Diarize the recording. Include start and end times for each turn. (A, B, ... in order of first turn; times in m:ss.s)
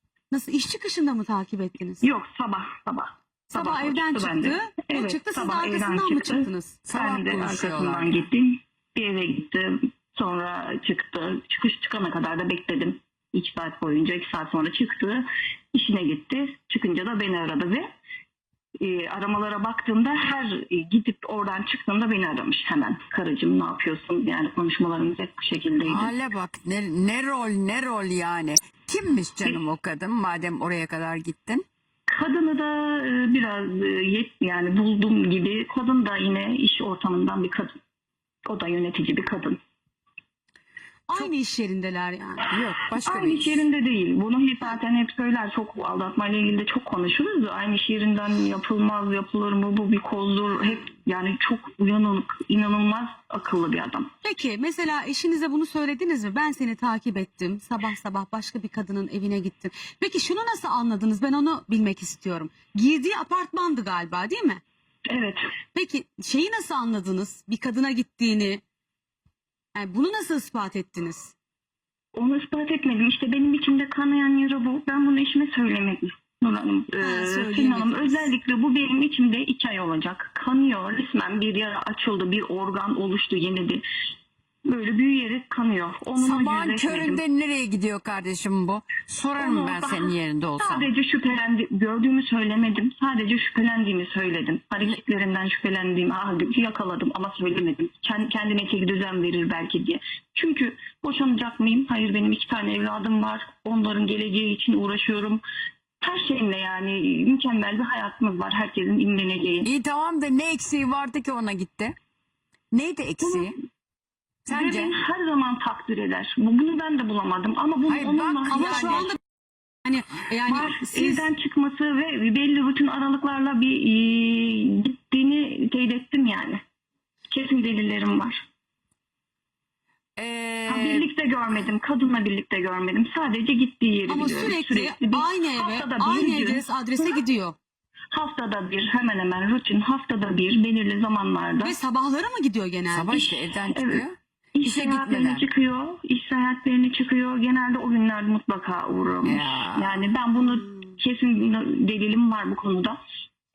0:00.3-0:02.0 A
0:02.0-0:17.9 B
0:03.5-0:06.8 A
0:06.8-0:08.2 C
0:18.8-0:26.1 B
0:25.8-0:31.6 C
0:32.1-0:37.7 B
0:38.5-0:39.6 B
0:41.1-0:42.5 A
0:42.5-0:43.6 C
0:43.0-0:54.1 B
0:54.2-1:04.6 A
1:05.1-1:05.4 B
1:05.7-1:08.6 A
1:09.7-1:11.3 A
1:12.1-1:23.8 B
1:17.0-1:18.3 A
1:24.6-1:27.2 B
1:26.2-1:30.9 C
1:29.4-1:45.4 B
1:46.0-1:49.7 B
1:49.6-1:51.9 C
1:52.7-1:53.5 C
1:54.4-1:54.9 C
1:54.5-1:59.1 B
1:57.8-1:59.1 C
1:58.5-1:59.2 A
1:59.8-2:01.3 A
2:00.4-2:06.6 B
2:07.3-2:08.4 B
2:10.2-2:11.1 C
2:10.7-2:17.2 B
2:14.1-2:17.6 A
2:18.1-2:21.8 B
2:21.6-2:23.1 A
2:22.9-2:25.4 C
2:23.1-2:24.0 B
2:24.6-2:33.0 B
2:29.2-2:30.0 C